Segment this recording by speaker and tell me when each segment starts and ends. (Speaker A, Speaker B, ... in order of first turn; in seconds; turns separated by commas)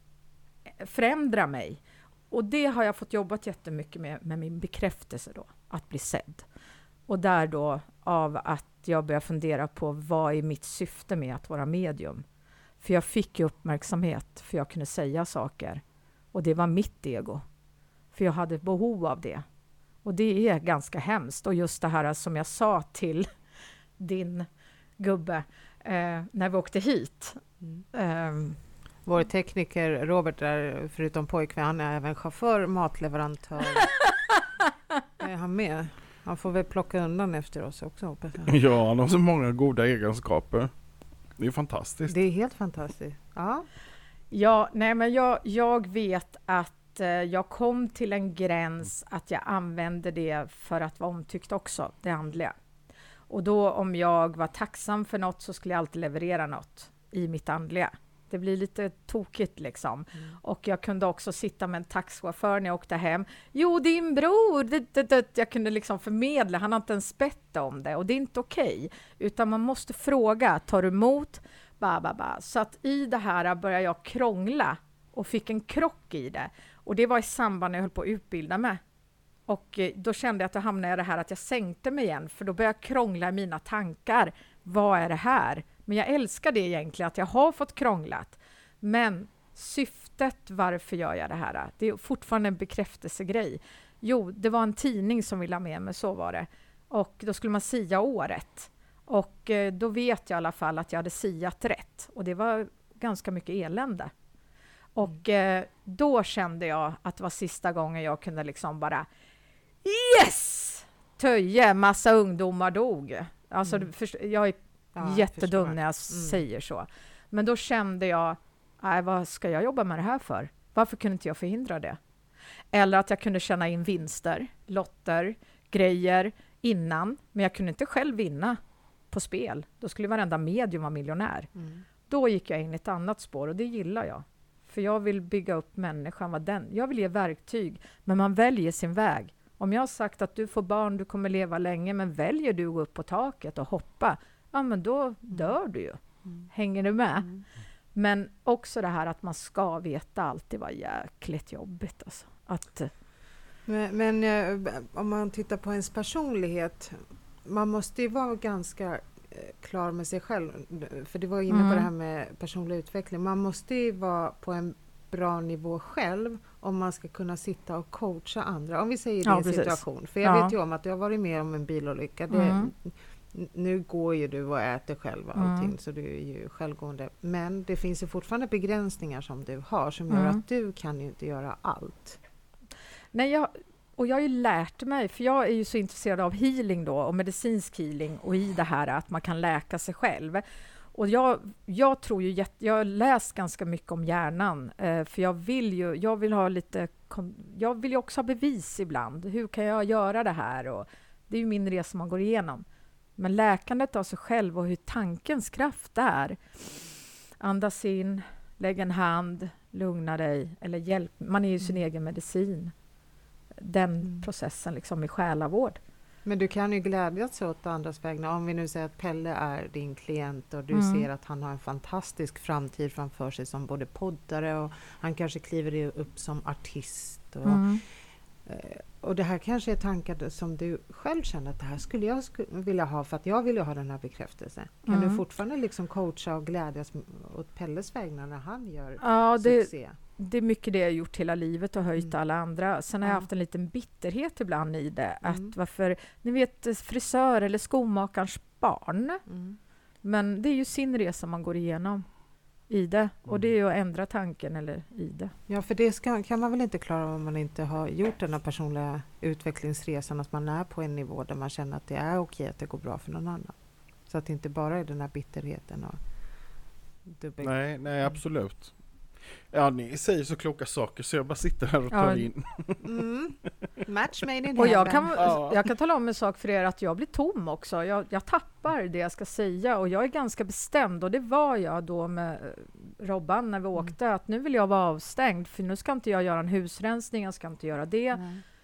Speaker A: 0.8-6.5, Speaker A: 7.1-12.2, Speaker A: 12.8-15.8, Speaker A: 16.3-17.4, Speaker A: 18.1-19.4, Speaker A: 20.0-23.3, Speaker A: 24.0-24.5, Speaker A: 25.0-27.4, Speaker A: 27.9-28.6, Speaker B: 29.0-33.9, Speaker A: 33.8-34.0, Speaker B: 35.2-38.5, Speaker C: 38.5-40.7, Speaker C: 41.4-42.2, Speaker B: 42.1-43.7, Speaker A: 44.3-52.5, Speaker A: 53.3-78.8, Speaker A: 79.5-104.1, Speaker A: 104.9-109.1, Speaker A: 109.8-122.0, Speaker B: 114.9-116.4, Speaker A: 122.7-128.6, Speaker A: 129.1-131.5, Speaker B: 131.6-131.8, Speaker A: 132.1-147.3, Speaker A: 147.9-152.9, Speaker B: 153.7-182.2, Speaker A: 161.5-161.9, Speaker A: 169.2-170.5, Speaker A: 172.3-172.7, Speaker A: 175.4-175.7, Speaker A: 180.1-180.4, Speaker A: 183.1-190.4, Speaker A: 190.9-202.6, Speaker A: 203.2-206.4, Speaker A: 207.4-212.7, Speaker A: 213.6-215.8, Speaker B: 216.2-227.7, Speaker A: 220.7-221.1, Speaker A: 227.4-227.8, Speaker B: 228.4-240.0, Speaker A: 234.9-235.2, Speaker A: 239.0-249.2, Speaker B: 243.0-243.3, Speaker B: 245.2-245.5, Speaker B: 249.3-249.6, Speaker A: 250.0-252.0, Speaker A: 252.7-255.3, Speaker B: 255.5-263.6, Speaker B: 264.1-266.0, Speaker B: 267.1-268.2, Speaker C: 267.4-268.7, Speaker C: 269.5-272.9, Speaker A: 271.9-272.2, Speaker B: 272.8-275.4, Speaker A: 274.6-288.2, Speaker C: 275.2-275.5, Speaker B: 288.1-288.4